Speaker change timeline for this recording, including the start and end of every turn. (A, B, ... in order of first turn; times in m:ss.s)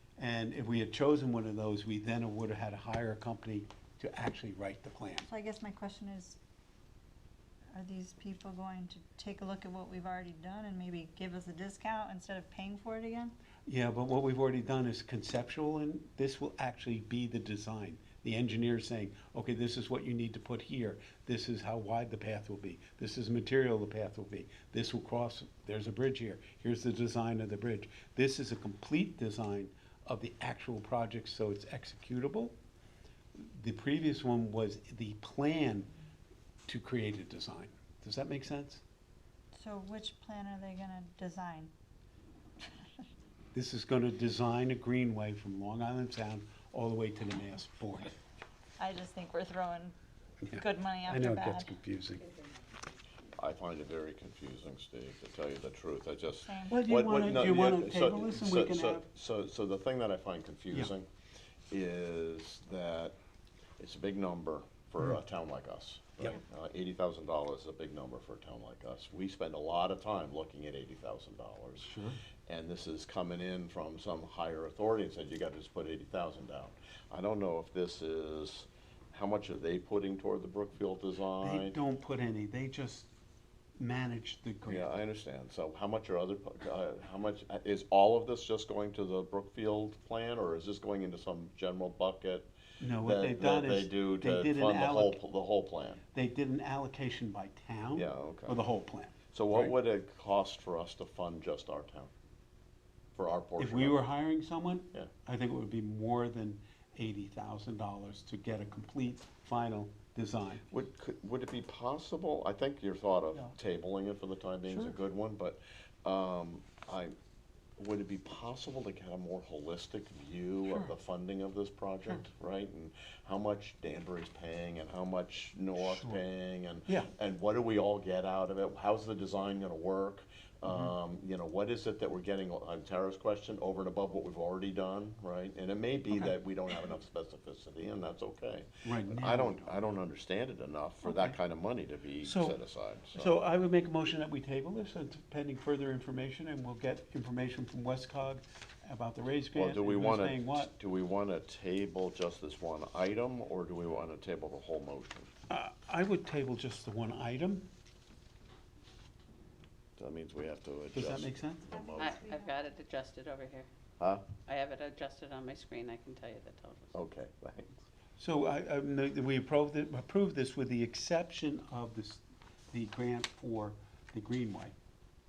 0:00.2-0:05.3 A
0:05.3-0:06.4 B
0:07.7-0:13.4 B
0:13.7-0:32.5 A
0:33.4-0:35.9 A
0:36.7-0:38.8 A
0:39.5-0:41.7 B
0:42.6-0:43.1 B
0:43.5-0:48.2 A
0:48.8-0:50.0 B
0:50.4-0:52.2 A
0:50.5-0:51.7 B
0:53.4-1:01.1 C
0:56.4-0:56.9 B
0:56.7-0:59.1 A
1:01.7-1:03.2 C
1:03.8-1:11.9 C
1:11.8-1:12.2 A
1:12.5-1:21.8 C
1:21.4-1:23.1 A
1:23.8-1:24.9 A
1:24.7-1:36.0 C
1:32.8-1:35.2 A
1:36.1-1:39.8 A
1:38.0-1:38.6 C
1:39.3-1:42.1 C
1:43.2-1:44.0 C
1:43.6-1:50.7 A
1:50.7-1:57.2 C
1:54.7-1:55.0 A
1:57.8-2:23.4 C
2:00.7-2:00.9 A
2:05.8-2:06.2 A
2:18.8-2:19.8 A
2:21.0-2:21.4 A
2:22.2-2:22.6 A
2:23.2-2:30.7 A
2:29.5-2:35.3 C
2:35.5-2:37.7 A
2:40.0-2:42.2 C
2:40.9-2:41.7 A
2:41.7-2:42.6 B
2:42.0-2:43.7 D
2:44.0-2:44.2 C
2:44.5-2:46.9 D
2:46.9-2:47.8 C
2:48.2-2:54.8 A